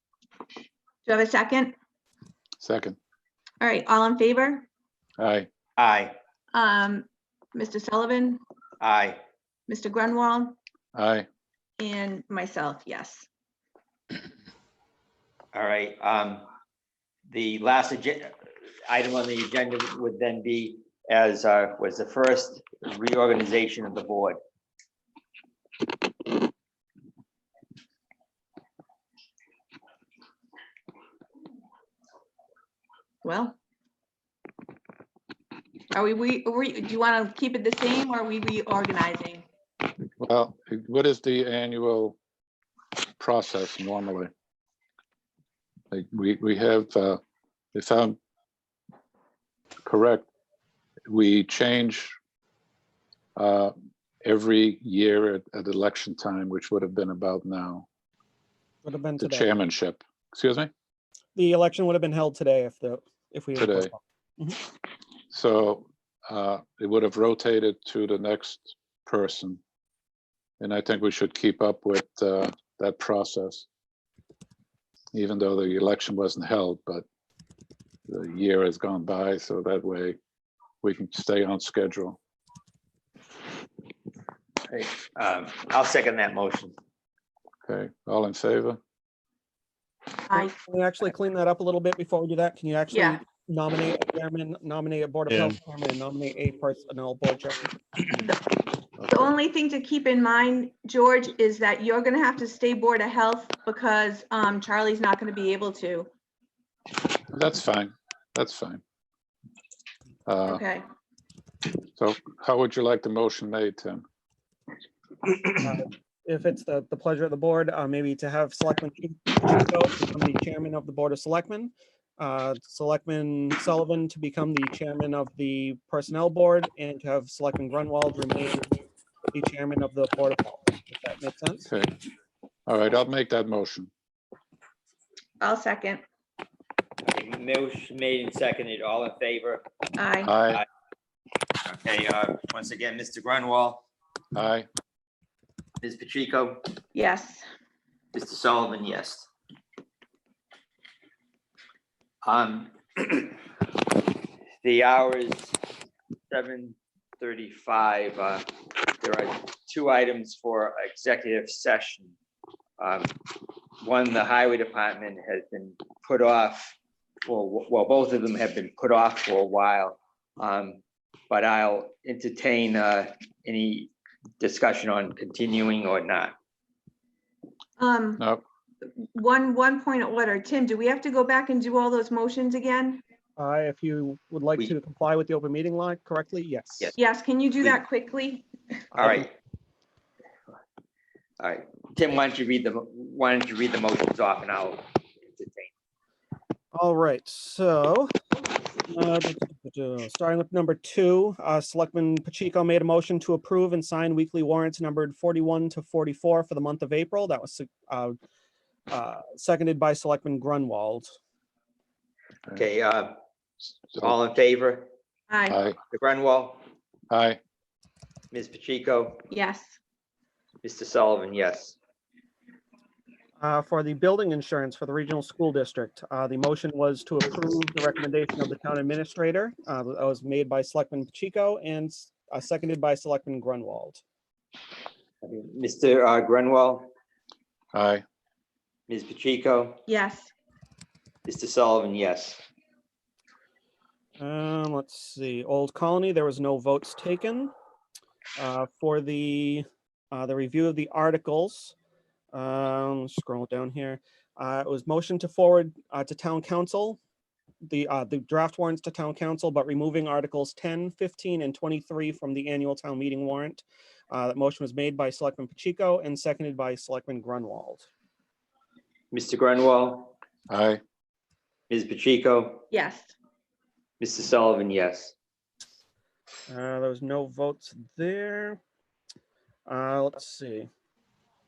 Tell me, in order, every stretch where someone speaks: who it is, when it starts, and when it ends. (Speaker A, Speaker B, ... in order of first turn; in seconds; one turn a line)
Speaker A: 1.1-1.7
Speaker B: 2.6-3.0
Speaker A: 3.6-4.7
Speaker B: 5.2-5.5
Speaker C: 5.8-6.2
Speaker A: 6.5-8.4
Speaker C: 8.8-9.2
Speaker A: 9.7-10.6
Speaker B: 10.9-11.3
Speaker A: 11.8-13.2
Speaker C: 15.5-16.5
Speaker C: 17.3-18.3
Speaker C: 18.9-24.4
Speaker A: 33.2-33.5
Speaker A: 35.9-39.4
Speaker B: 40.2-42.2
Speaker B: 43.2-44.3
Speaker B: 45.9-47.2
Speaker B: 47.7-48.2
Speaker B: 49.8-50.3
Speaker B: 51.1-52.1
Speaker B: 53.4-57.9
Speaker D: 58.8-59.5
Speaker B: 59.2-60.7
Speaker D: 61.4-64.6
Speaker B: 63.5-63.9
Speaker B: 65.3-69.6
Speaker B: 70.6-73.7
Speaker B: 75.1-77.0
Speaker B: 78.1-80.2
Speaker B: 80.8-82.2
Speaker C: 84.7-86.8
Speaker B: 87.7-88.8
Speaker A: 90.3-90.5
Speaker D: 90.3-97.8
Speaker A: 92.9-93.2
Speaker A: 98.2-98.4
Speaker A: 99.1-106.1
Speaker B: 107.3-108.8
Speaker B: 110.2-110.6
Speaker A: 110.5-110.8
Speaker B: 112.0-114.0
Speaker D: 115.6-128.7
Speaker D: 129.3-131.7
Speaker B: 131.7-131.9
Speaker B: 132.7-133.9
Speaker A: 135.4-136.0
Speaker C: 137.0-139.6
Speaker A: 139.9-140.3
Speaker B: 140.2-140.6
Speaker C: 141.7-143.8
Speaker B: 144.3-144.7
Speaker C: 145.8-146.6
Speaker A: 146.9-147.4
Speaker C: 148.1-149.3
Speaker C: 152.2-153.4
Speaker C: 154.6-155.6
Speaker C: 156.3-158.5
Speaker C: 159.0-162.1
Speaker C: 162.8-163.1
Speaker C: 163.8-176.3
Speaker A: 177.8-178.2
Speaker B: 178.2-178.4
Speaker A: 178.8-183.0
Speaker D: 183.4-186.9
Speaker A: 186.9-188.5
Speaker D: 188.9-189.3
Speaker C: 188.9-189.3
Speaker C: 191.4-195.7
Speaker D: 196.7-198.1
Speaker D: 198.8-208.2
Speaker D: 208.9-211.1
Speaker C: 212.5-213.1
Speaker C: 214.0-214.9
Speaker A: 215.3-215.6
Speaker B: 215.5-215.8
Speaker C: 215.9-216.6
Speaker B: 217.1-217.4
Speaker C: 218.3-219.2
Speaker A: 219.3-219.7
Speaker C: 220.6-221.8
Speaker D: 223.4-234.0
Speaker C: 235.2-236.9
Speaker B: 237.7-238.0
Speaker C: 238.9-239.8
Speaker A: 239.9-240.3
Speaker C: 241.2-242.4
Speaker D: 244.2-247.5
Speaker D: 248.4-251.7
Speaker D: 252.3-257.0
Speaker D: 257.6-267.9
Speaker C: 269.1-270.1
Speaker B: 270.5-270.8
Speaker C: 271.7-272.6
Speaker A: 272.7-273.1
Speaker C: 274.0-275.1
Speaker D: 276.5-278.6
Speaker D: 279.6-280.7